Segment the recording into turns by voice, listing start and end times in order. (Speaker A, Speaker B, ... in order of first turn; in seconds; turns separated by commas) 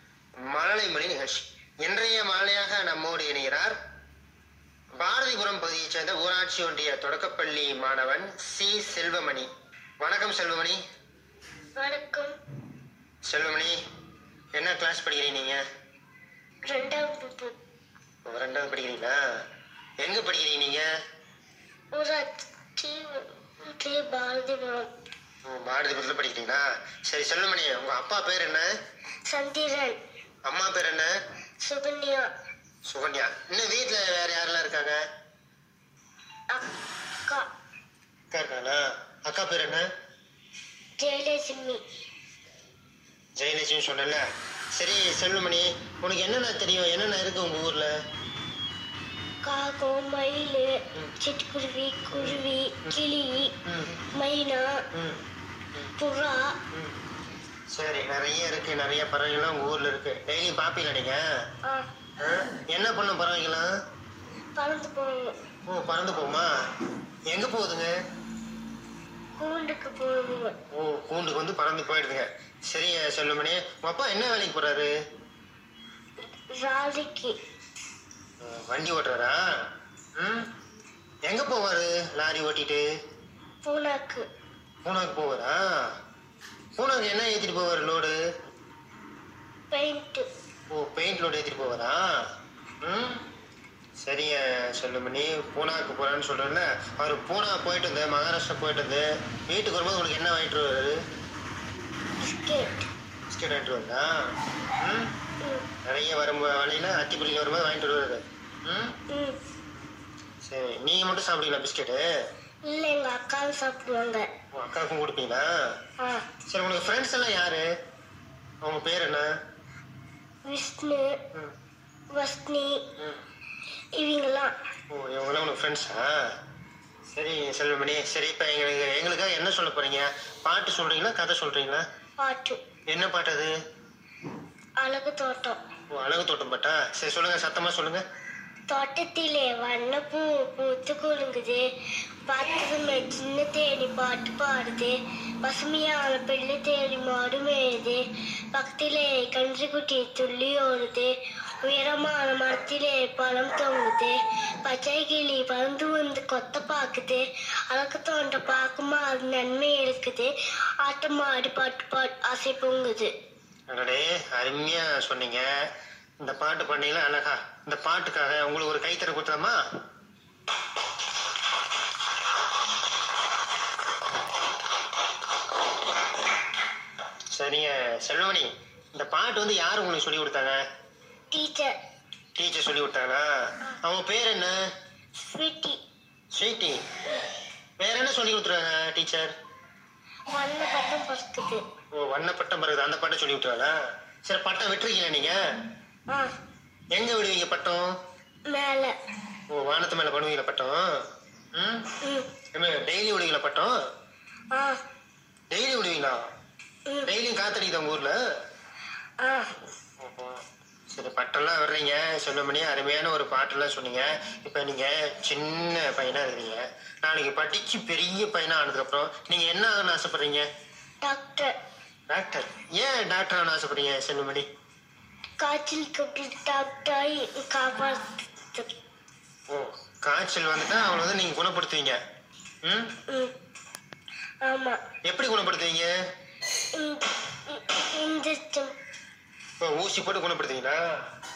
Speaker A: 0.5-3.8, Speaker A: 5.0-9.5, Speaker A: 10.0-10.8, Speaker B: 11.8-12.3, Speaker A: 13.2-13.8, Speaker A: 14.5-15.6, Speaker B: 16.6-17.5, Speaker A: 18.2-19.1, Speaker A: 20.0-20.8, Speaker B: 21.9-24.9, Speaker A: 25.4-28.7, Speaker B: 29.3-30.0, Speaker A: 30.5-31.1, Speaker B: 31.6-32.3, Speaker A: 32.9-35.0, Speaker A: 38.3-39.8, Speaker B: 41.0-41.8, Speaker A: 43.4-44.2, Speaker A: 44.7-47.9, Speaker B: 49.4-53.5, Speaker A: 52.2-53.0, Speaker A: 53.6-54.0, Speaker B: 54.1-54.8, Speaker A: 54.9-55.2, Speaker B: 56.0-56.5, Speaker A: 56.7-57.0, Speaker A: 57.7-61.2, Speaker A: 62.2-63.7, Speaker B: 64.5-65.3, Speaker A: 65.7-66.5, Speaker A: 67.3-67.9, Speaker B: 69.4-70.5, Speaker A: 70.7-74.9, Speaker B: 76.3-77.3, Speaker A: 78.4-79.4, Speaker A: 80.2-80.5, Speaker A: 81.2-82.8, Speaker B: 83.6-84.2, Speaker A: 84.8-85.6, Speaker A: 86.8-88.2, Speaker B: 89.7-90.3, Speaker A: 90.7-92.0, Speaker A: 92.8-93.2, Speaker A: 94.0-101.0, Speaker B: 102.2-102.9, Speaker A: 103.3-104.1, Speaker A: 104.8-105.1, Speaker A: 105.8-109.0, Speaker B: 109.1-109.4, Speaker A: 110.4-112.0, Speaker B: 112.7-114.3, Speaker A: 114.5-115.5, Speaker B: 116.0-116.2, Speaker A: 116.5-117.7, Speaker A: 118.6-119.3, Speaker B: 120.4-121.2, Speaker B: 122.1-122.8, Speaker B: 124.0-124.5, Speaker A: 124.9-126.1, Speaker A: 127.1-131.8, Speaker B: 132.2-132.6, Speaker A: 132.9-133.5, Speaker B: 134.8-135.6, Speaker A: 135.9-138.0, Speaker B: 138.7-141.6, Speaker B: 142.3-148.0, Speaker B: 148.5-151.1, Speaker B: 151.6-160.3, Speaker B: 160.8-163.1, Speaker A: 163.7-165.4, Speaker A: 166.2-169.6, Speaker A: 177.3-180.6, Speaker B: 181.3-181.7, Speaker A: 182.3-183.3, Speaker A: 183.8-184.6, Speaker B: 185.2-185.8, Speaker A: 186.3-186.8, Speaker A: 187.8-189.3, Speaker B: 190.3-191.6, Speaker A: 191.9-193.7, Speaker A: 194.2-195.4, Speaker A: 196.9-197.9, Speaker B: 198.5-198.9, Speaker A: 199.5-200.8, Speaker A: 201.5-201.9, Speaker B: 202.0-202.3, Speaker A: 202.5-203.7, Speaker B: 204.5-204.8, Speaker A: 205.5-206.2, Speaker A: 207.0-208.2, Speaker B: 209.2-209.5, Speaker A: 210.0-220.4, Speaker B: 221.0-221.5, Speaker A: 222.1-224.5, Speaker B: 225.4-228.7, Speaker A: 229.5-232.0, Speaker A: 232.6-232.9, Speaker B: 233.1-233.3, Speaker B: 234.4-234.8, Speaker A: 235.1-235.9, Speaker B: 236.8-238.7, Speaker A: 239.6-240.8